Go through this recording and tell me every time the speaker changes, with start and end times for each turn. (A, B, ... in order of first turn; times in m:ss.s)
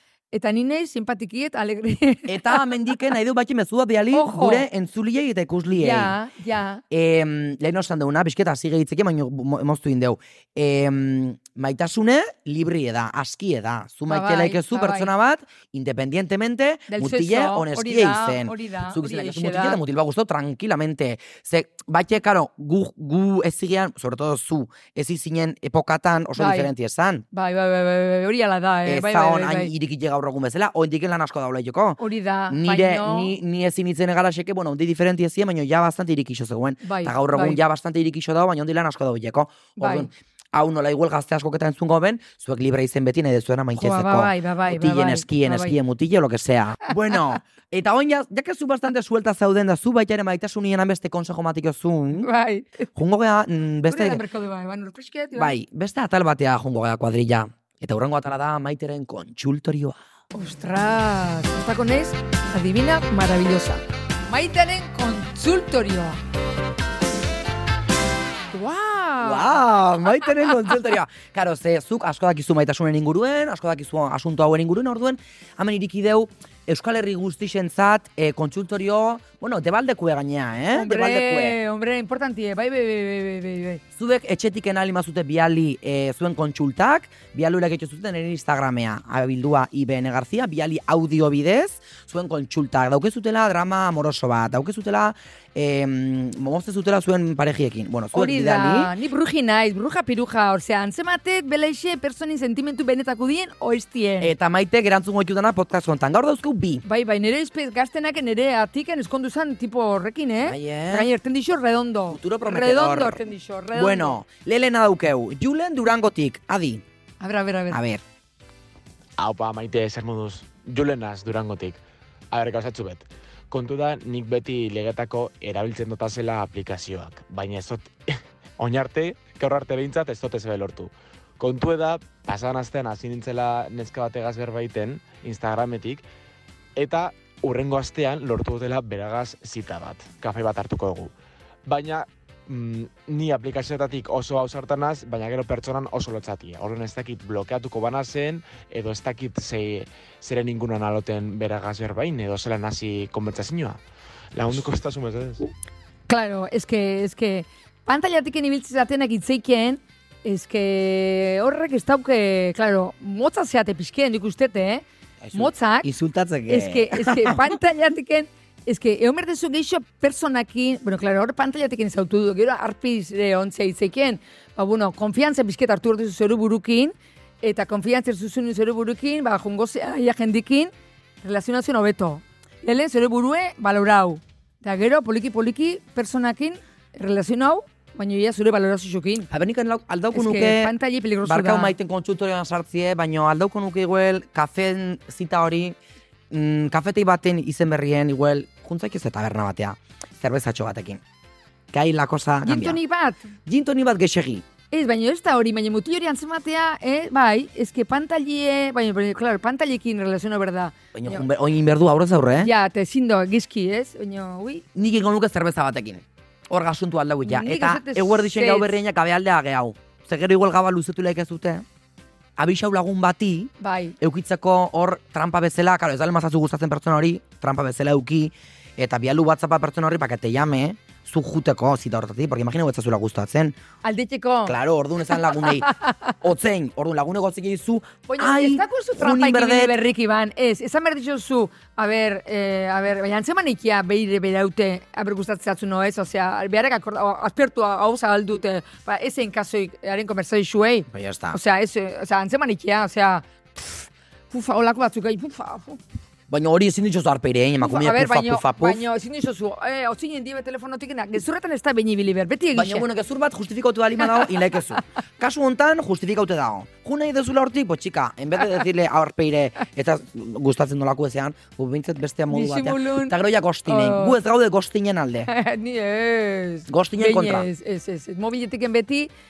0:00.3-0:02.7 A
0:02.3-0:06.1 B
0:04.1-0:04.6 A
0:05.8-0:06.8 A
0:06.9-0:27.2 B
0:14.1-0:15.1 A
0:16.9-0:19.8 A
0:26.4-0:26.7 A
0:27.3-0:29.7 A
0:28.8-0:52.3 B
0:32.0-0:33.3 A
0:36.8-0:37.6 A
0:39.8-0:40.1 A
0:43.8-0:45.7 A
0:52.2-0:52.9 A
0:52.9-0:54.2 B
0:53.9-0:55.6 A
0:55.3-1:00.0 B
1:00.3-1:06.2 A
1:08.5-1:09.6 A
1:09.2-1:21.6 B
1:10.3-1:10.5 A
1:20.7-1:23.8 A
1:23.9-1:38.9 B
1:38.1-1:44.3 A
1:44.2-1:46.8 B
1:46.8-1:54.2 A
1:50.4-1:51.1 B
1:52.1-1:53.2 B
1:53.7-1:56.8 B
1:57.2-1:57.8 A
1:57.7-1:58.0 B
1:59.2-2:01.8 C
2:02.3-2:16.0 C
2:16.8-2:21.1 C
2:21.7-2:33.8 C
2:34.3-2:35.4 C
2:36.1-2:45.9 A
2:45.2-2:47.5 B
2:46.5-3:09.3 A
3:09.3-3:15.8 B
3:10.1-3:11.7 A
3:16.3-3:21.0 B
3:21.7-3:22.8 B
3:22.4-3:23.3 A
3:23.4-3:24.4 B
3:24.7-3:31.2 A
3:30.9-3:32.5 B
3:32.4-3:34.6 A
3:34.7-3:41.6 B
3:37.2-3:38.8 A
3:42.4-3:53.6 B
3:43.6-3:44.0 A
3:53.8-3:54.6 A
3:54.4-3:59.8 B
3:55.2-3:56.1 A
3:58.1-4:15.8 A
4:10.9-4:11.4 B
4:16.3-4:18.8 B
4:17.6-4:22.8 A
4:22.5-4:35.3 B
4:32.3-4:33.1 A
4:33.7-4:34.2 A
4:35.2-4:39.1 A
4:36.7-4:37.5 B